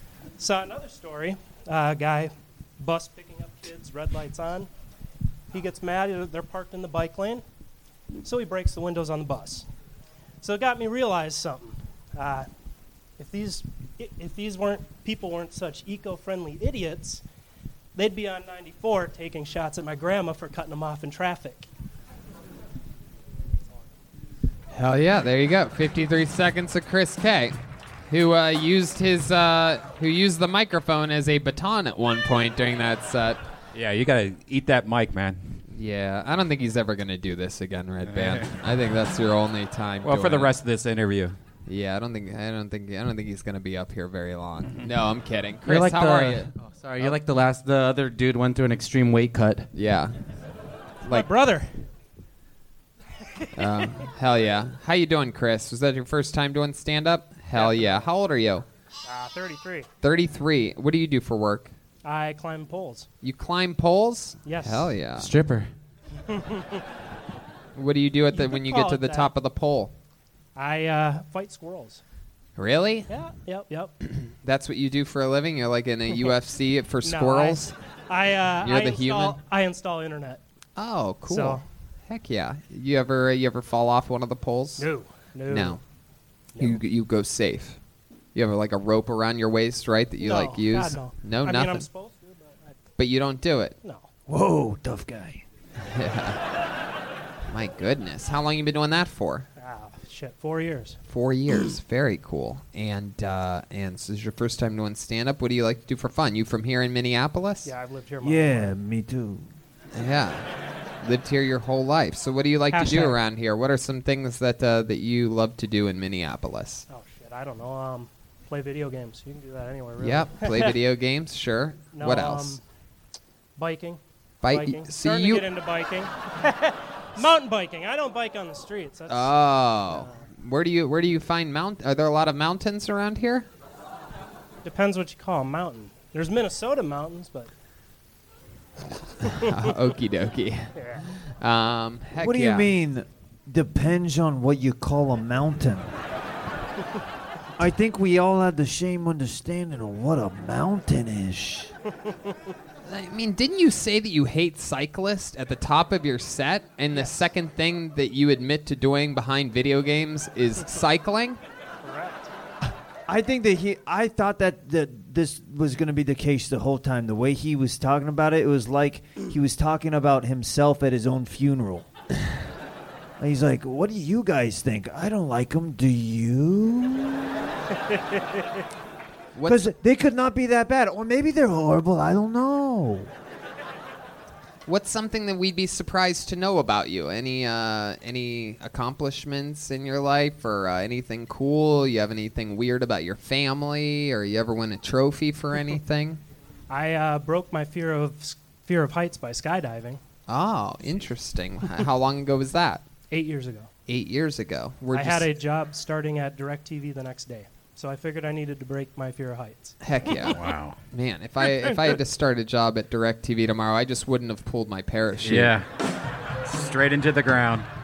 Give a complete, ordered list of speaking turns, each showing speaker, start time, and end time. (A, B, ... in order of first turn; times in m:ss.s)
0:00.4-0:04.7 A
0:05.5-0:07.4 A
0:08.2-0:09.6 A
0:10.4-0:12.5 A
0:13.2-0:17.2 A
0:17.9-0:21.7 A
0:24.7-0:27.6 B
0:28.1-0:33.4 B
0:33.7-0:35.6 C
0:35.7-0:40.5 B
0:38.0-0:38.5 C
0:40.0-0:41.4 C
0:41.7-0:46.5 B
0:45.6-0:49.7 D
0:49.7-0:50.1 B
0:51.1-0:51.7 A
0:53.6-0:58.6 B
0:57.6-0:58.0 A
0:59.0-0:59.9 A
1:00.0-1:01.7 B
1:02.0-1:03.1 A
1:03.2-1:05.3 B
1:04.4-1:04.9 A
1:05.2-1:05.7 D
1:06.3-1:06.8 A
1:07.8-1:09.9 B
1:08.3-1:09.3 A
1:10.6-1:12.0 A
1:12.6-1:13.1 B
1:13.1-1:13.9 A
1:14.4-1:17.7 B
1:17.0-1:20.4 A
1:18.6-1:19.4 B
1:20.8-1:24.9 B
1:21.3-1:21.6 A
1:24.8-1:25.8 A
1:25.5-1:25.8 B
1:26.6-1:27.8 B
1:28.3-1:31.9 B
1:30.2-1:32.8 A
1:33.0-1:33.7 B
1:33.8-1:34.1 A
1:34.3-1:35.4 E
1:35.8-1:36.4 B
1:37.5-1:39.5 B
1:39.6-1:41.0 A
1:41.1-1:47.7 B
1:47.6-1:48.7 A
1:48.2-1:49.5 E
1:49.9-1:50.4 B
1:51.0-1:56.9 B
1:52.7-1:53.2 A
1:56.9-2:00.8 A
2:00.0-2:02.6 B
2:01.9-2:02.6 A
2:03.6-2:10.2 A
2:04.4-2:05.4 B
2:09.1-2:13.5 B
2:14.6-2:17.5 A
2:19.3-2:19.5 A
2:19.3-2:22.7 B
2:20.8-2:21.0 A
2:22.2-2:25.9 E
2:27.6-2:31.7 E
2:32.9-2:41.4 B
2:36.9-2:37.2 A
2:41.8-2:42.3 A
2:43.1-2:51.9 E
2:53.2-2:57.4 E
2:59.3-2:59.7 B
2:59.4-3:03.1 E
3:04.7-3:16.2 B
3:16.7-3:20.0 A
3:20.3-3:22.8 B
3:23.1-3:23.7 A
3:23.9-3:25.3 B
3:24.9-3:29.8 A
3:29.8-3:30.4 B
3:30.3-3:30.8 C
3:30.9-3:35.5 B
3:31.6-3:32.0 A
3:35.2-3:35.6 C
3:36.4-3:37.7 C